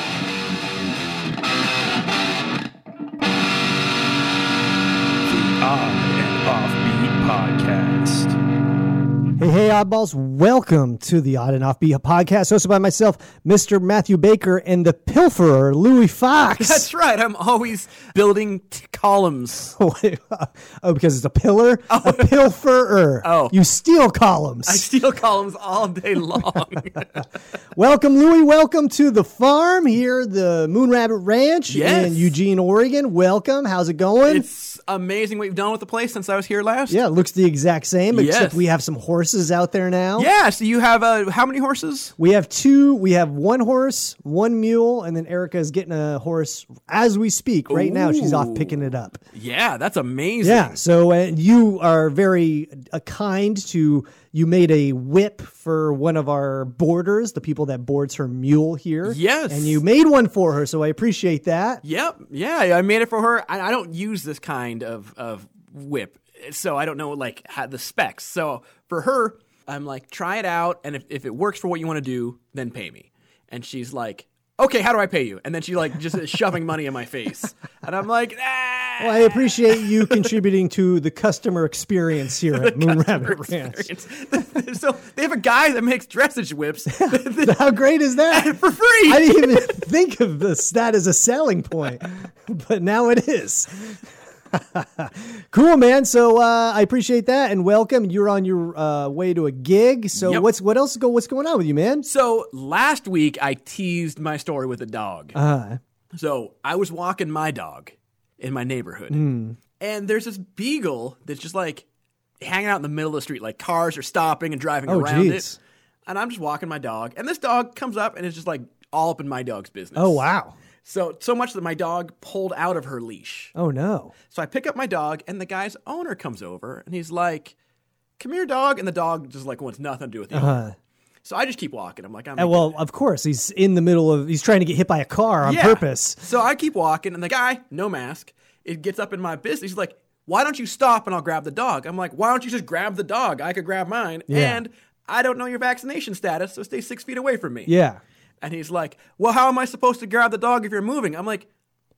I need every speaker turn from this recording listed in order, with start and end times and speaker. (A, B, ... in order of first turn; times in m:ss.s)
0:05.3-0:08.4 A
0:09.4-0:16.9 B
0:16.5-0:19.7 C
0:19.7-0:24.8 B
0:21.9-0:22.4 C
0:23.2-0:23.6 C
0:24.7-0:27.2 C
0:27.8-0:34.5 B
0:31.7-0:32.3 C
0:34.3-0:37.0 C
0:36.9-0:40.3 B
0:38.1-0:38.6 C
0:40.2-0:42.1 C
0:42.2-0:49.2 B
0:47.7-0:48.8 C
0:49.3-0:50.8 C
0:50.4-1:01.8 B
0:59.0-0:59.8 C
1:01.8-1:20.2 C
1:19.0-1:23.8 B
1:22.5-1:27.8 C
1:27.0-1:28.6 B
1:28.3-1:29.8 C
1:29.1-1:34.0 B
1:34.5-1:42.1 B
1:40.2-1:40.5 C
1:42.0-1:45.4 C
1:45.4-1:45.8 B
1:46.1-1:49.2 C
1:49.1-1:49.6 B
1:49.8-1:51.8 C
1:52.4-1:55.5 C
1:54.9-1:55.6 B
1:56.1-2:00.2 C
2:00.0-2:00.6 B
2:00.8-2:03.5 C
2:03.6-2:04.2 B
2:04.3-2:07.6 C
2:08.2-2:10.6 C
2:10.3-2:10.7 B
2:11.2-2:12.8 C
2:12.4-2:16.2 B
2:15.4-2:27.7 C
2:24.3-2:24.6 B
2:27.7-2:28.0 B
2:28.4-2:31.5 C